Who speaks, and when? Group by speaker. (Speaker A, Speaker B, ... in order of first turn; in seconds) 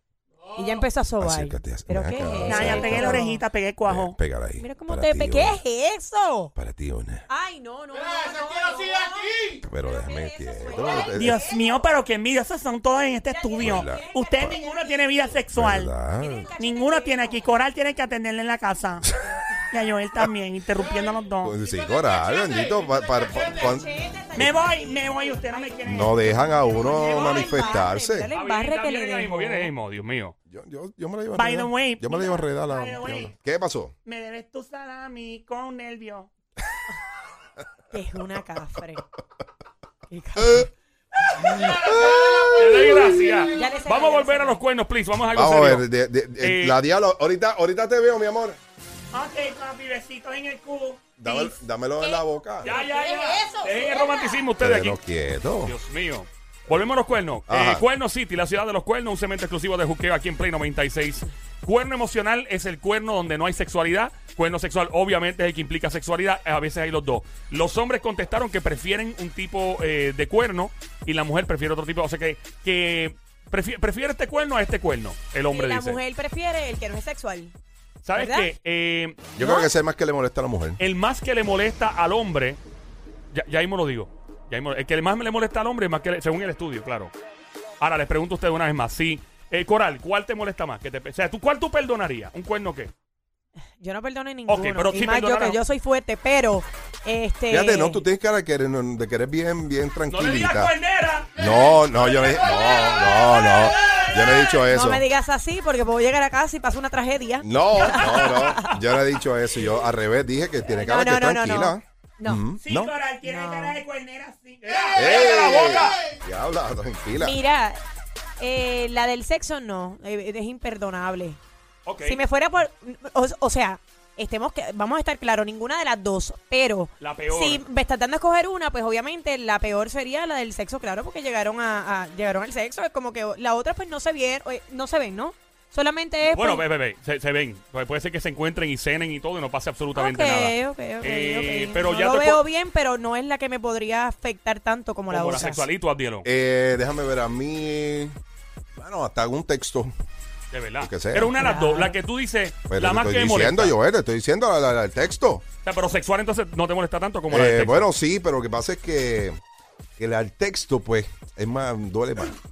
Speaker A: 0.5-3.4, 4.6-6.5, 7.3-11.7, 13.1-15.3, 16.2-17.5, 21.6-29.7, 37.9-39.0, 40.1-40.7, 43.5-44.6, 52.0-54.5, 75.5-77.5, 78.1-78.5, 79.4-79.7, 93.8-98.0, 104.7-108.6, 110.6-112.4, 113.2-113.8, 117.2-117.8, 118.4-121.4, 122.0-136.6, 139.9-145.7, 151.4-151.9
Speaker B: 1.2-3.2, 3.9-5.6, 6.5-7.2, 9.6-11.4, 13.6-14.6, 15.5-16.5, 21.4-24.6, 25.8-28.3, 30.5-33.9, 41.6-42.5, 45.3-48.6, 51.2-52.8, 54.6-55.7, 57.5-57.8, 79.3-80.8, 97.5-100.7, 101.3-105.0, 107.4-112.9, 114.9-117.4, 146.2-148.1, 148.8-149.9, 150.8-151.4, 152.7-155.4, 157.3-159.4, 160.0-162.4
Speaker C: 2.4-4.2, 11.1-15.9, 16.6-19.1, 19.7-21.6, 24.4-26.2, 31.3-33.3, 34.0-36.3, 49.1-51.3, 112.6-115.1
Speaker D: 26.9-30.3, 42.5-45.9, 46.4-46.8, 52.6-55.0, 55.6-76.0, 78.0-79.2, 80.8-82.6, 83.3-87.1, 87.8-92.9, 94.5-95.6, 100.1-101.4, 115.0-115.9, 121.8-122.2, 127.0-127.6, 136.3-142.4, 145.1-146.2, 150.5-153.7, 155.6-157.9